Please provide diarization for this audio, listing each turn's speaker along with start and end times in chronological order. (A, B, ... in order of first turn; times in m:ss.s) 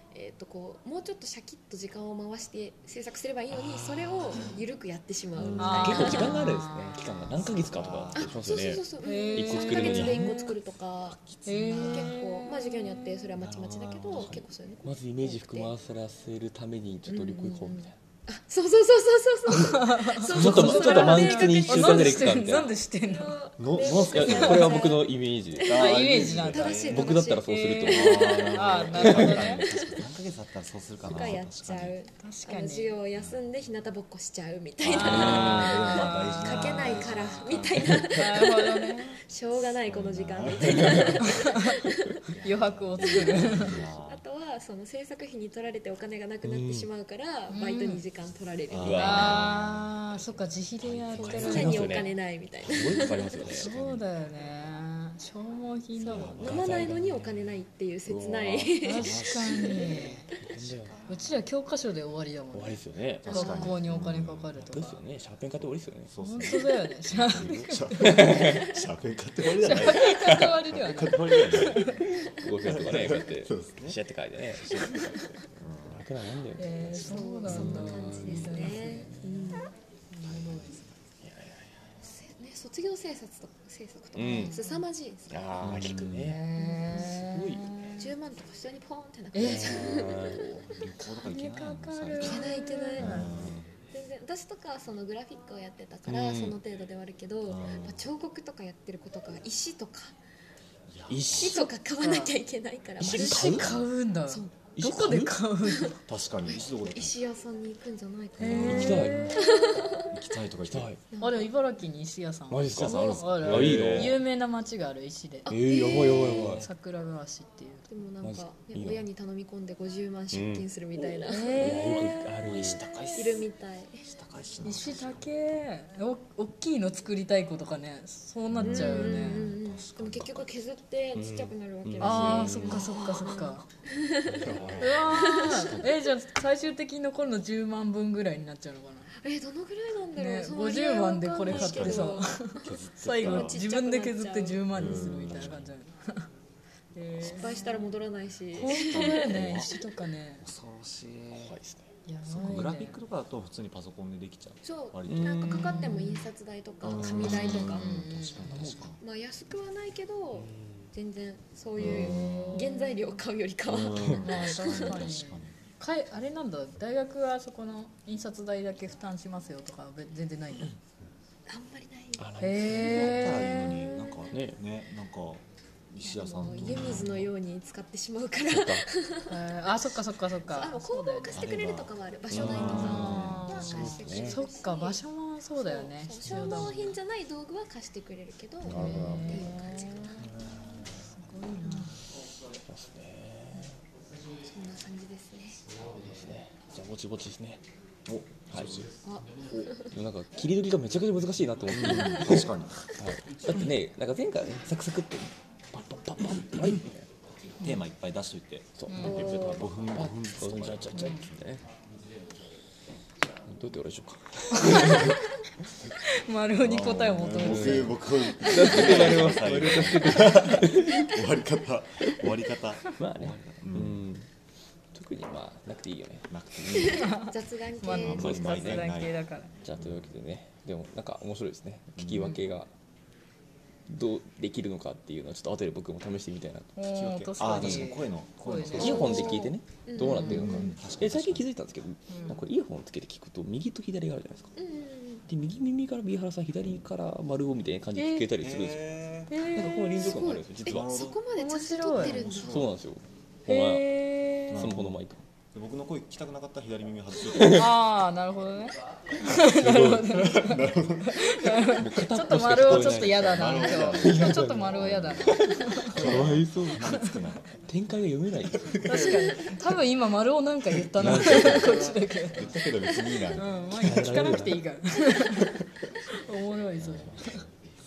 0:00.1-0:06.6 A
0:03.5-0:04.6 B
0:05.4-0:10.4 B
0:05.6-0:07.1 C
0:07.4-0:08.4 D
0:08.1-0:15.7 A
0:09.0-0:10.5 C
0:11.4-0:13.4 C
0:13.4-0:14.4 D
0:14.2-0:18.0 B
0:17.1-0:25.9 A
0:19.5-0:23.4 C
0:19.5-0:22.7 B
0:23.6-0:24.8 D
0:23.9-0:29.5 B
0:24.2-0:24.8 C
0:25.6-0:27.1 D
0:25.6-0:29.7 C
0:26.5-0:28.0 A
0:27.9-0:32.0 D
0:29.7-0:30.1 A
0:31.0-0:42.3 A
0:32.2-0:33.0 C
0:34.8-0:38.2 D
0:34.9-0:39.2 C
0:34.9-0:36.0 B
0:39.9-0:41.4 D
0:40.6-0:41.2 B
0:41.2-0:41.8 C
0:42.3-0:44.2 D
0:42.4-0:43.8 C
0:43.0-0:49.4 A
0:46.4-0:46.9 B
0:47.5-0:48.0 C
0:48.7-0:51.7 D
0:48.8-0:49.6 B
0:49.0-0:52.1 C
0:51.1-0:53.7 B
0:51.2-0:53.6 A
0:52.6-0:54.7 D
0:53.5-0:56.4 C
0:56.0-0:57.0 D
0:56.3-1:00.1 A
0:56.4-0:57.3 B
0:58.1-0:58.8 B
0:58.8-1:00.3 C
0:58.9-1:01.5 D
0:59.8-1:01.0 B
1:01.1-1:05.0 C
1:02.5-1:03.5 B
1:03.2-1:03.8 A
1:03.2-1:04.9 D
1:04.6-1:06.4 B
1:06.1-1:12.0 D
1:06.2-1:08.4 C
1:07.1-1:08.7 B
1:09.4-1:12.1 C
1:12.2-1:19.4 B
1:12.6-1:14.0 D
1:14.6-1:16.0 D
1:16.6-1:19.5 C
1:17.0-1:19.7 A
1:20.2-1:20.7 C
1:20.2-1:21.0 D
1:21.2-1:21.7 B
1:22.0-1:25.9 A
1:24.1-1:24.6 B
1:24.2-1:24.8 C
1:25.3-1:27.8 B
1:25.6-1:26.4 D
1:26.1-1:28.1 C
1:26.6-1:27.1 A
1:28.0-1:30.7 A
1:29.3-1:30.0 C
1:29.4-1:30.8 B
1:30.6-1:33.7 D
1:31.0-1:33.3 C
1:32.2-1:40.2 A
1:33.0-1:33.6 B
1:36.1-1:36.6 B
1:37.5-1:38.1 D
1:40.9-1:41.6 D
1:41.1-1:41.7 B
1:41.3-1:44.5 A
1:41.8-1:42.3 C
1:43.0-1:43.8 B
1:43.0-1:46.0 C
1:44.8-1:45.4 B
1:46.1-1:47.2 D
1:46.5-1:50.2 A
1:48.4-1:49.4 C
1:48.4-1:49.2 D
1:48.6-1:49.5 B
1:50.0-1:50.9 D
1:50.7-1:51.0 B
1:51.1-1:51.5 A
1:51.2-1:55.5 C
1:52.5-1:54.2 B
1:52.7-1:54.2 D
1:55.4-1:56.6 A
1:55.5-1:56.7 B
1:56.2-1:56.7 D
1:56.6-1:57.9 C
1:57.9-2:04.2 A
1:58.2-1:59.0 B
2:00.3-2:03.5 B
2:01.3-2:02.3 C
2:02.9-2:03.4 C
2:04.1-2:05.2 B
2:04.3-2:05.2 D
2:04.6-2:09.6 C
2:08.5-2:09.2 B
2:08.6-2:15.9 A
2:09.3-2:10.6 D
2:11.2-2:12.9 B
2:12.0-2:13.6 C
2:14.3-2:16.0 D
2:14.8-2:19.1 C
2:19.2-2:25.6 A
2:20.2-2:26.3 C
2:21.5-2:23.6 D
2:24.7-2:25.7 D
2:27.0-2:27.9 C
2:27.2-2:29.8 A
2:28.6-2:30.4 C
2:28.6-2:29.7 D
2:30.4-2:31.5 D
2:31.3-2:31.9 B
2:32.1-2:33.0 C
2:32.3-2:35.4 D
2:32.4-2:32.8 B
2:34.6-2:38.0 A
2:35.1-2:36.1 B
2:35.5-2:36.2 C
2:36.8-2:39.0 D
2:36.9-2:37.8 B
2:37.5-2:38.7 C
2:38.4-2:39.0 B
2:39.0-2:45.2 A
2:40.4-2:40.9 B
2:41.8-2:42.7 D
2:41.9-2:43.2 C
2:43.7-2:45.6 D
2:44.2-2:50.7 C
2:51.5-2:54.3 A
2:52.2-2:53.2 B
2:52.4-2:53.8 C
2:52.8-2:57.3 D
2:54.3-2:54.6 B
2:56.0-2:59.4 A
2:56.6-2:57.2 B
2:58.5-2:58.9 B
2:59.3-3:01.4 C
3:00.5-3:05.0 A
3:01.3-3:04.3 D
3:02.3-3:04.4 B
3:02.6-3:07.0 C
3:05.6-3:10.3 A
3:06.4-3:06.7 B
3:08.7-3:09.6 B
3:08.7-3:10.2 C
3:08.8-3:09.2 D
3:10.2-3:11.1 B
3:10.9-3:12.0 C
3:11.6-3:11.9 A
3:12.7-3:13.8 B
3:14.5-3:15.6 A
3:15.8-3:17.6 B
3:18.1-3:18.9 D
3:18.5-3:18.9 B
3:19.0-3:20.0 A
3:19.6-3:27.1 B
3:21.7-3:22.9 D
3:27.6-3:31.5 D
3:28.8-3:31.6 B
3:28.9-3:29.2 C
3:29.0-3:29.7 A
3:31.0-3:31.2 C
3:33.4-3:35.2 B
3:34.6-3:35.2 C
3:36.0-3:39.1 C
3:36.6-3:44.0 D
3:37.4-3:41.1 B
3:42.9-3:44.3 B
3:44.9-3:47.0 B
3:46.3-3:47.2 D
3:46.7-3:48.4 A
3:46.8-3:49.5 C
3:47.8-3:49.2 D
3:48.2-3:48.9 B
3:49.6-3:52.7 B
3:49.8-3:50.1 D
3:52.0-3:52.4 D
3:53.9-3:56.8 B
3:56.8-3:59.4 C
3:56.9-3:59.5 D
3:57.4-3:57.9 B
3:58.8-4:04.5 B
3:58.8-4:00.8 A
4:00.1-4:01.5 D
4:02.1-4:02.4 C
4:04.6-4:05.3 A
4:05.3-4:10.9 B
4:08.0-4:08.3 C
4:08.4-4:09.4 D
4:09.3-4:10.2 C
4:10.0-4:12.6 A
4:10.6-4:11.2 D
4:11.4-4:12.2 C
4:11.9-4:12.7 D
4:12.5-4:13.9 B
4:13.5-4:14.7 C
4:14.5-4:15.2 B
4:14.5-4:15.0 D
4:15.5-4:17.7 D
4:17.4-4:17.7 B
4:17.4-4:27.2 C
4:19.2-4:20.2 B
4:20.0-4:21.8 D
4:21.8-4:27.0 B
4:22.6-4:27.6 D
4:27.6-4:29.0 B
4:28.5-4:29.6 D
4:28.8-4:35.6 C
4:30.9-4:33.6 D
4:31.0-4:32.0 B
4:33.7-4:34.6 B
4:36.1-4:37.4 C
4:36.8-4:37.3 B
4:37.1-4:37.4 D